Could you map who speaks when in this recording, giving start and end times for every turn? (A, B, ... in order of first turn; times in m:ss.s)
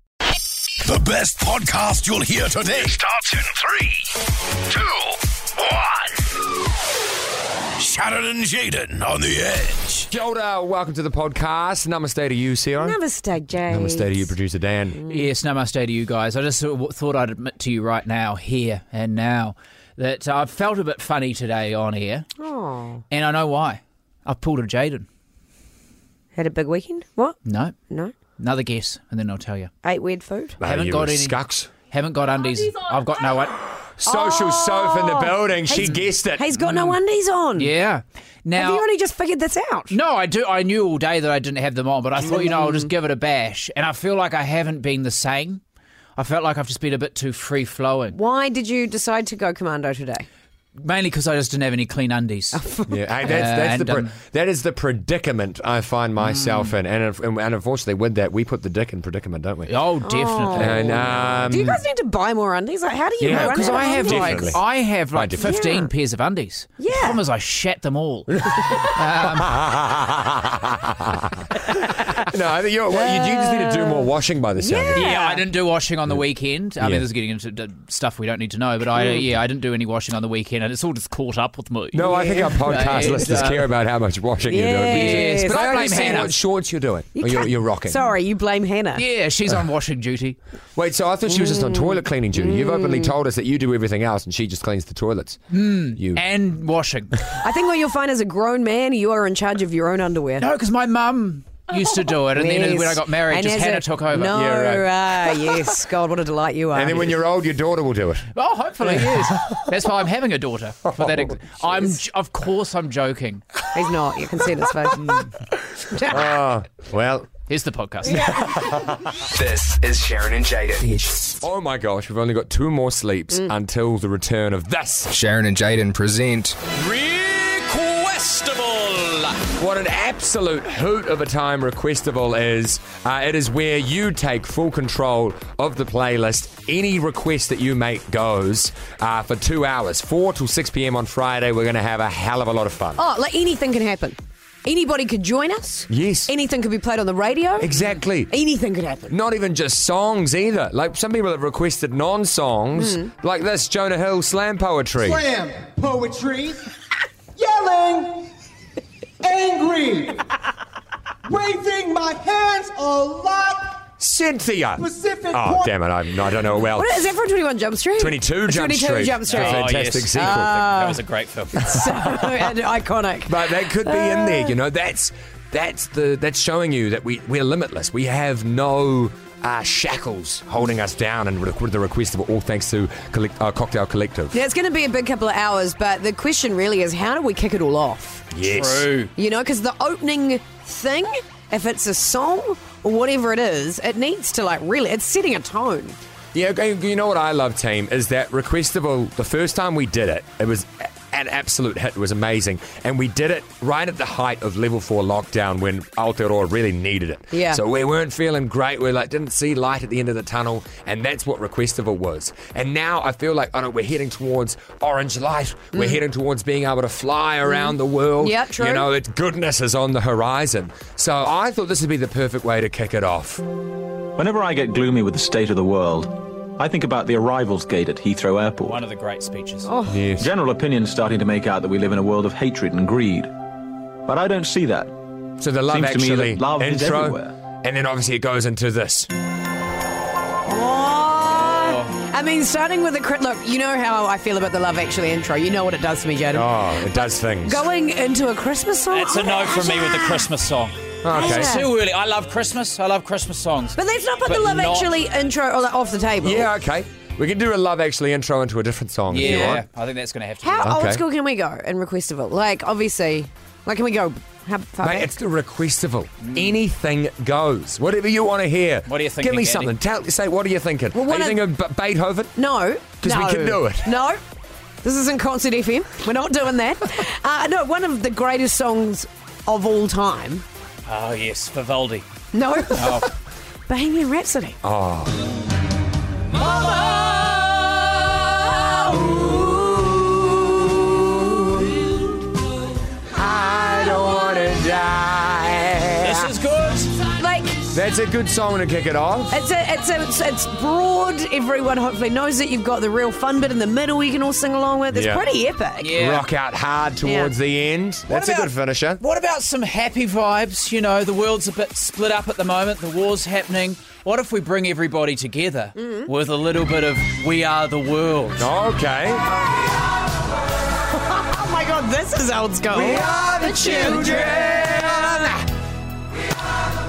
0:00.8-0:03.8 A
0:05.6-0:05.9 A
0:07.8-0:10.1 A
0:10.1-0:13.0 B
0:12.8-0:14.3 C
0:13.7-0:15.0 B
0:15.0-0:15.2 C
0:15.1-0:22.3 D
0:22.4-0:23.0 C
0:23.1-0:25.1 D
0:26.3-0:27.4 C
0:27.4-0:27.8 D
0:28.4-0:29.7 D
0:29.8-0:30.6 C
0:30.6-0:31.7 B
0:30.6-0:31.4 D
0:31.9-0:33.6 D
0:33.8-0:36.5 B
0:34.0-0:37.7 C
0:36.6-0:36.9 D
0:37.6-0:38.8 D
0:38.5-0:39.9 C
0:39.9-0:45.6 D
0:42.2-0:42.9 C
0:46.2-0:48.2 D
0:48.1-0:50.2 C
0:50.8-0:52.6 D
0:52.5-0:52.9 C
0:52.9-0:59.7 B
0:53.2-0:54.1 D
0:56.2-0:56.7 D
0:59.7-1:01.6 D
1:00.0-1:04.6 C
1:00.5-1:01.8 B
1:03.2-1:04.6 B
1:03.2-1:09.6 D
1:05.1-1:05.6 B
1:05.4-1:05.9 C
1:06.8-1:07.2 C
1:09.3-1:11.4 B
1:12.2-1:15.1 B
1:12.9-1:15.4 C
1:14.9-1:23.7 D
1:21.9-1:28.0 B
1:22.1-1:23.3 C
1:24.5-1:26.3 C
1:24.9-1:26.3 D
1:27.1-1:29.0 C
1:29.0-1:30.4 D
1:30.8-1:36.2 B
1:31.3-1:33.1 C
1:35.5-1:37.3 D
1:37.4-1:40.5 C
1:40.4-1:44.8 D
1:42.3-1:47.1 C
1:44.4-1:44.8 B
1:46.7-1:48.3 B
1:48.3-1:53.4 D
1:48.8-1:49.6 B
1:50.9-1:51.4 B
1:53.7-1:55.0 C
1:55.0-1:55.3 D
1:55.6-1:57.3 B
1:55.9-1:56.3 C
1:57.5-1:58.1 D
1:58.0-1:59.2 B
1:59.3-2:00.9 E
2:01.4-2:05.1 B
2:05.1-2:06.5 E
2:06.7-2:09.4 D
2:09.6-2:23.0 B
2:23.0-2:27.7 C
2:25.9-2:26.3 B
2:27.6-2:28.3 B
2:28.3-2:29.1 C
2:29.1-2:35.2 B
2:32.8-2:33.1 C
2:35.0-2:36.6 F
2:37.4-2:38.3 F
2:39.2-2:40.2 F
2:41.2-2:43.7 F
2:44.0-2:47.0 B
2:44.8-2:45.7 F
2:46.7-2:51.0 C
2:48.0-2:50.6 B
2:49.3-2:52.2 D
2:51.5-2:54.5 C
2:53.3-3:04.4 B
3:04.3-3:08.2 C
3:08.3-3:08.9 B
3:08.4-3:09.1 D
3:09.2-3:16.0 C
3:16.3-3:43.4 B
3:27.3-3:27.6 C
3:35.7-3:36.0 C
3:37.4-3:38.9 C
3:44.2-3:48.8 G
3:48.6-3:49.7 D
3:49.6-3:50.0 C
3:49.9-3:50.3 B
3:50.2-3:53.3 G
3:54.0-3:54.9 G
3:55.4-3:59.1 B
3:55.7-3:57.3 G
4:00.4-4:10.3 C
4:01.6-4:01.9 D
4:06.3-4:07.6 B
4:08.9-4:14.9 D
4:11.0-4:11.6 B
4:11.1-4:11.7 C
4:13.8-4:16.5 C
4:16.2-4:19.6 B
4:19.1-4:20.7 D
4:19.2-4:19.5 C
4:20.4-4:25.1 C
4:20.6-4:21.0 B
4:24.8-4:32.4 B
4:26.2-4:26.5 D
4:28.9-4:29.7 D
4:30.9-4:31.5 C
4:32.4-4:34.2 C
4:33.0-4:33.9 B
4:34.8-4:40.4 C
4:40.9-4:42.0 D
4:42.3-4:43.0 C
4:42.7-4:43.1 D
4:43.7-4:44.6 C
4:44.6-4:45.1 B
4:46.5-4:47.2 C
4:48.4-4:50.0 C
4:53.1-4:56.3 B
4:56.0-4:56.9 D
4:57.1-4:57.6 C
4:57.7-4:59.4 B
4:59.3-5:05.9 C
5:04.9-5:05.2 B
5:05.8-5:06.2 D
5:05.9-5:09.0 B
5:07.0-5:07.3 C
5:08.1-5:18.5 D
5:15.8-5:16.1 C
5:18.4-5:19.3 B
5:21.0-5:25.3 C
5:22.7-5:25.4 B